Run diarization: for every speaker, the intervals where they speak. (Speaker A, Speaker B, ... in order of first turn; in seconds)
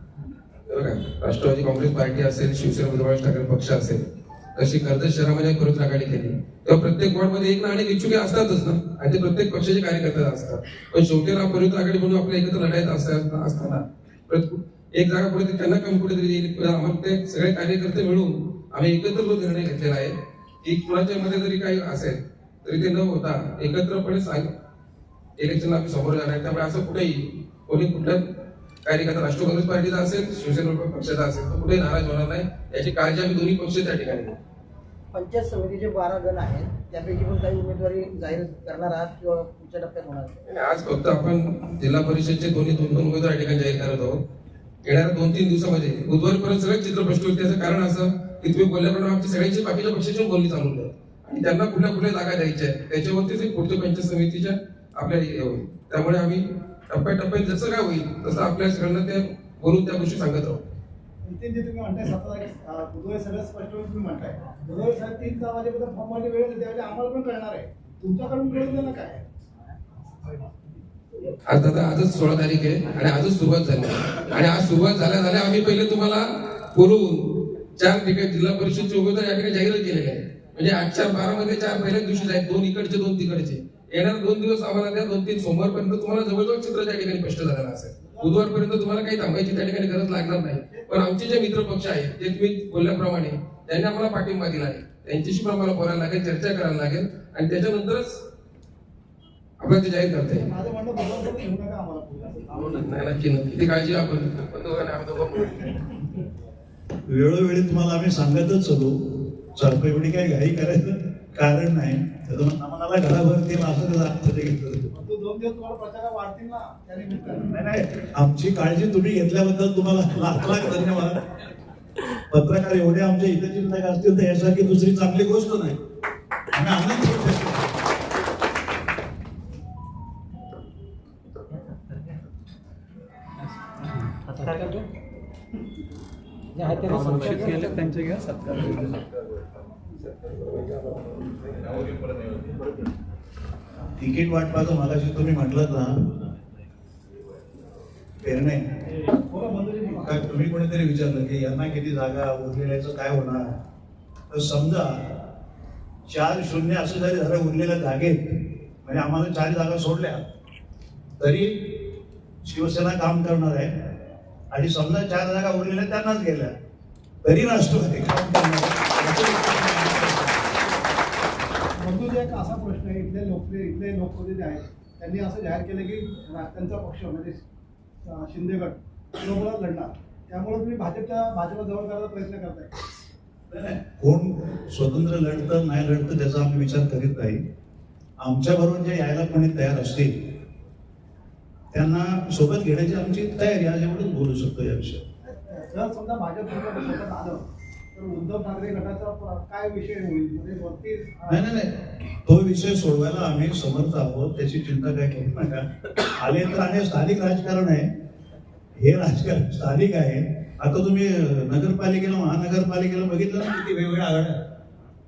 Speaker A: 0.7-4.0, 4.6-24.5, 25.4-28.2, 28.9-34.4, 40.5-44.2, 44.8-60.6, 71.5-98.2, 99.6-100.5, 102.6-105.8
Speaker B: 35.1-40.4
Speaker C: 61.2-69.2, 88.0-88.5, 90.5-91.1, 100.3-102.7, 114.9-117.5, 149.1-150.2, 171.8-177.4, 178.1-182.7, 195.2-197.4, 197.9-201.4
Speaker D: 107.1-109.0, 109.5-114.9, 117.5-121.2, 122.3-125.8, 126.5-127.7, 144.0-146.1, 148.2-148.6, 150.0-153.5, 154.3-155.2, 156.1-160.2, 161.2-161.8, 162.4-163.9, 164.5-166.5, 167.2-170.5, 183.5-187.4, 188.2-190.1, 191.7-195.0, 201.3-205.7, 206.2-207.9, 208.8-214.4
Speaker E: 134.3-134.8, 136.6-138.8